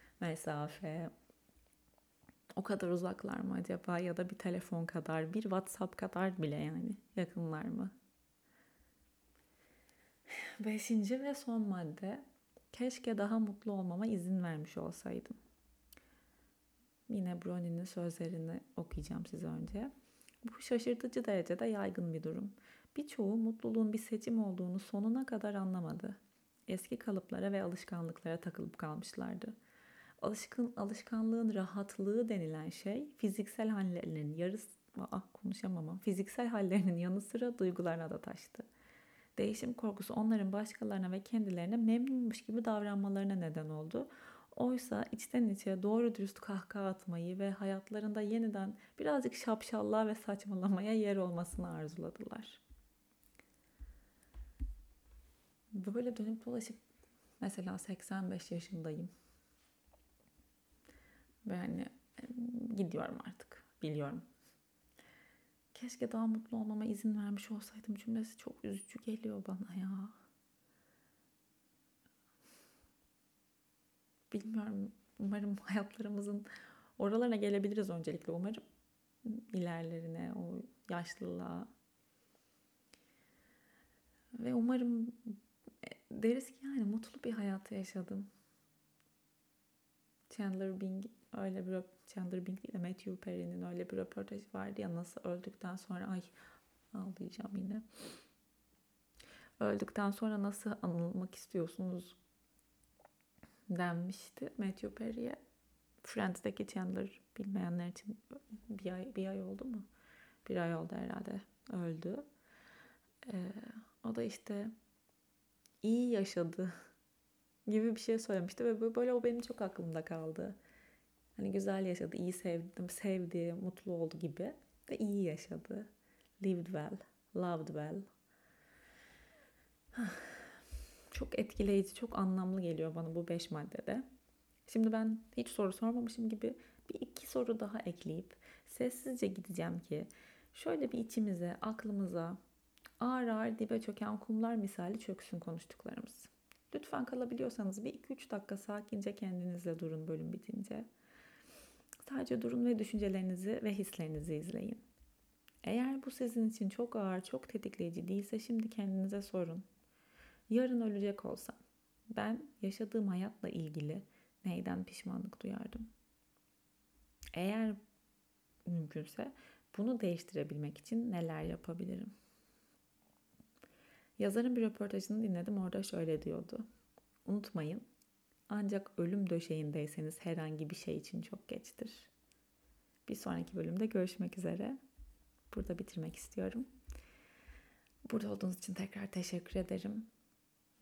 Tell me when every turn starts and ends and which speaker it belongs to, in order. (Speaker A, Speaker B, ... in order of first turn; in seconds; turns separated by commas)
Speaker A: 0.2-1.1, Speaker A: 2.6-7.9, Speaker A: 10.3-15.4, Speaker A: 17.1-19.9, Speaker A: 20.4-26.2, Speaker A: 26.7-29.6, Speaker A: 30.2-38.7, Speaker A: 39.4-52.6, Speaker A: 55.7-56.8, Speaker A: 57.4-59.1, Speaker A: 61.5-64.2, Speaker A: 65.7-70.2, Speaker A: 74.3-76.5, Speaker A: 77.0-78.6, Speaker A: 79.2-81.7, Speaker A: 84.4-88.3, Speaker A: 90.3-96.3, Speaker A: 96.9-97.8, Speaker A: 99.6-102.2, Speaker A: 103.7-105.4, Speaker A: 106.0-109.9, Speaker A: 110.5-112.3, Speaker A: 113.2-114.7, Speaker A: 115.8-116.7, Speaker A: 117.7-120.6, Speaker A: 121.4-128.1, Speaker A: 130.0-130.3, Speaker A: 131.1-134.1, Speaker A: 134.7-142.4, Speaker A: 143.0-150.9, Speaker A: 152.0-154.8, Speaker A: 155.6-159.7, Speaker A: 160.5-165.9, Speaker A: 167.3-167.8, Speaker A: 168.7-172.1, Speaker A: 174.2-176.7, Speaker A: 177.3-177.8, Speaker A: 178.5-182.1, Speaker A: 183.1-184.8, Speaker A: 185.5-186.7, Speaker A: 188.1-190.1